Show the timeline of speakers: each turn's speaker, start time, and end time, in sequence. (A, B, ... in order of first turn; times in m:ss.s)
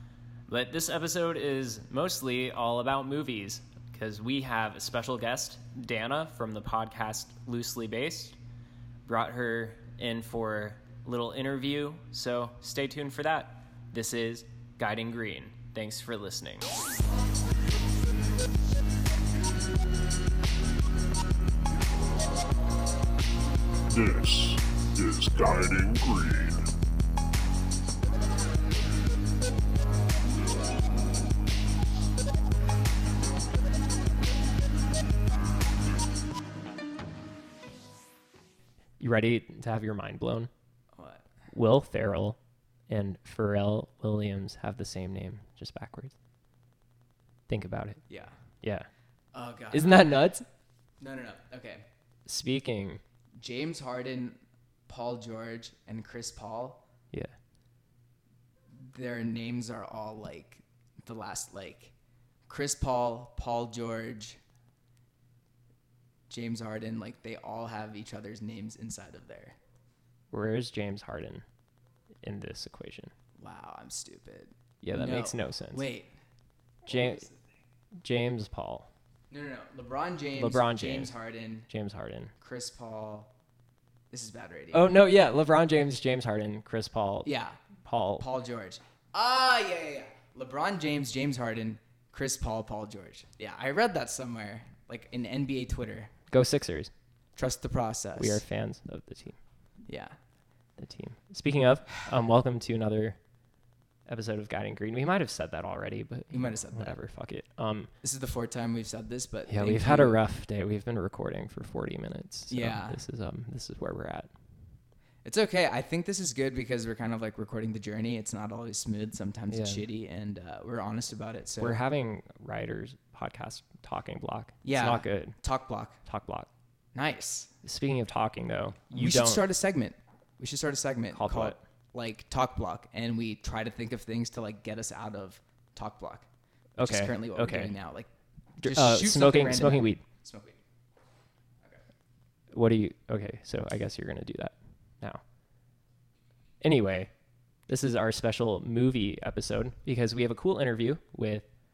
0:00.5-0:08.4 A
0:09.1-0:16.7 A
0:23.9-0:26.7 B
0:39.0-0:40.5 A
0:40.9-0:41.3 C
0:41.5-0:42.4 A
0:42.9-0:46.2 A
0:47.5-0:48.0 A
0:48.1-0:48.4 C
0:48.6-0:48.9 A
0:49.3-0:50.1 C
0:49.7-0:50.4 A
0:51.0-0:51.9 C
0:52.3-0:53.0 A
0:53.4-0:56.8 C
0:58.7-1:01.9 C
1:02.5-1:04.4 C
1:06.3-1:09.6 C
1:10.3-1:11.4 A
1:12.2-1:13.1 A
1:13.4-1:16.1 C
1:14.8-1:15.9 A
1:16.9-1:17.3 A
1:16.9-1:17.3 C
1:18.0-1:18.9 A
1:19.3-1:21.7 C
1:20.4-1:21.1 A
1:21.7-1:22.3 A
1:22.4-1:23.3 C
1:24.1-1:24.9 C
1:24.7-1:27.3 A
1:27.2-1:27.6 C
1:27.8-1:28.3 A
1:28.2-1:36.1 C
1:36.3-1:36.9 A
1:37.4-1:38.4 C
1:38.2-1:39.4 A
1:39.9-1:40.2 C
1:40.8-1:43.2 A
1:44.1-1:47.9 A
1:46.3-1:47.0 C
1:48.0-1:50.2 C
1:49.5-1:54.3 A
1:52.5-1:53.0 C
1:55.2-2:01.8 C
1:59.5-1:59.8 A
2:01.6-2:05.4 A
2:04.6-2:06.0 C
2:06.0-2:06.5 A
2:06.9-2:07.5 C
2:07.6-2:09.4 A
2:08.9-2:16.3 C
2:11.1-2:11.6 A
2:16.8-2:17.7 A
2:16.8-2:18.1 C
2:18.6-2:20.0 A
2:18.6-2:20.6 C
2:22.5-2:25.2 A
2:26.6-2:27.1 A
2:27.7-2:31.5 A